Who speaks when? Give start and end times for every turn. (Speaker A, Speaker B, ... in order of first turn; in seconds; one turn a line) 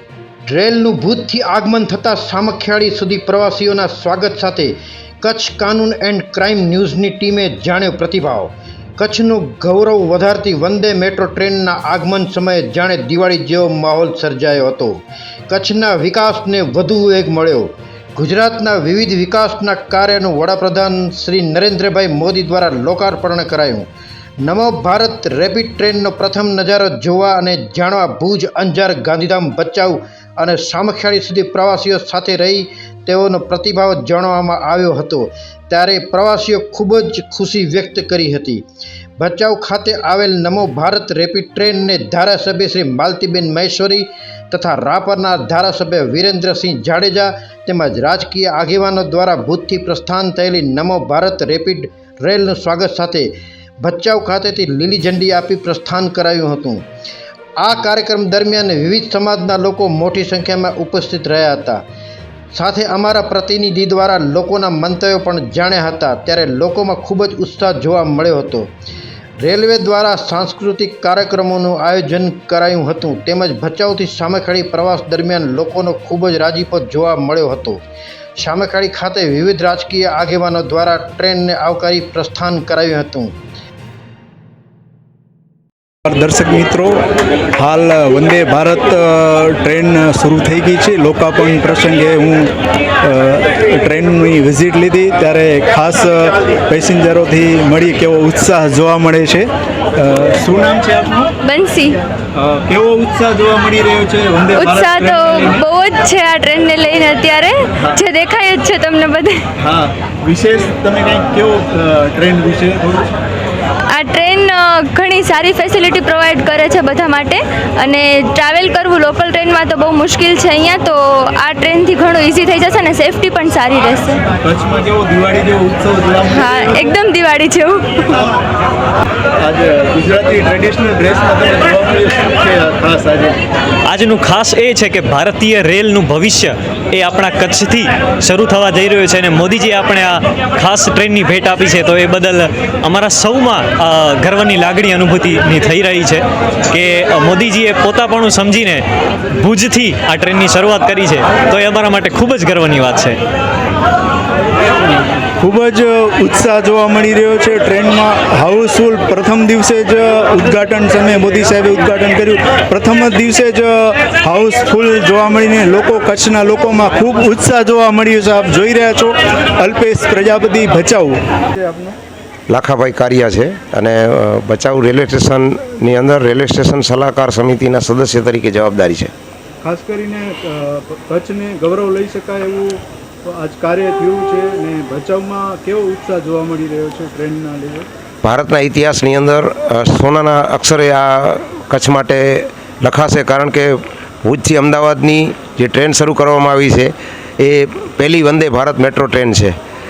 Speaker A: 0.5-23.9
Speaker A: 24.4-38.6
Speaker A: 39.2-56.8
Speaker A: 57.6-61.8
Speaker A: 62.5-68.7
Speaker A: 69.4-77.8
Speaker A: 78.4-83.3
Speaker B: 86.1-87.0
Speaker B: 87.5-92.5
Speaker B: 93.0-101.3
Speaker C: 101.4-102.0
Speaker B: 102.3-105.6
Speaker C: 104.5-109.5
Speaker B: 109.6-113.1
Speaker C: 113.9-124.2
Speaker B: 124.4-126.9
Speaker C: 126.2-128.2
Speaker B: 129.4-133.4
Speaker D: 133.9-148.8
Speaker D: 149.4-153.2
Speaker B: 155.4-172.0
Speaker E: 172.5-179.1
Speaker B: 179.6-187.9
Speaker E: 188.2-199.5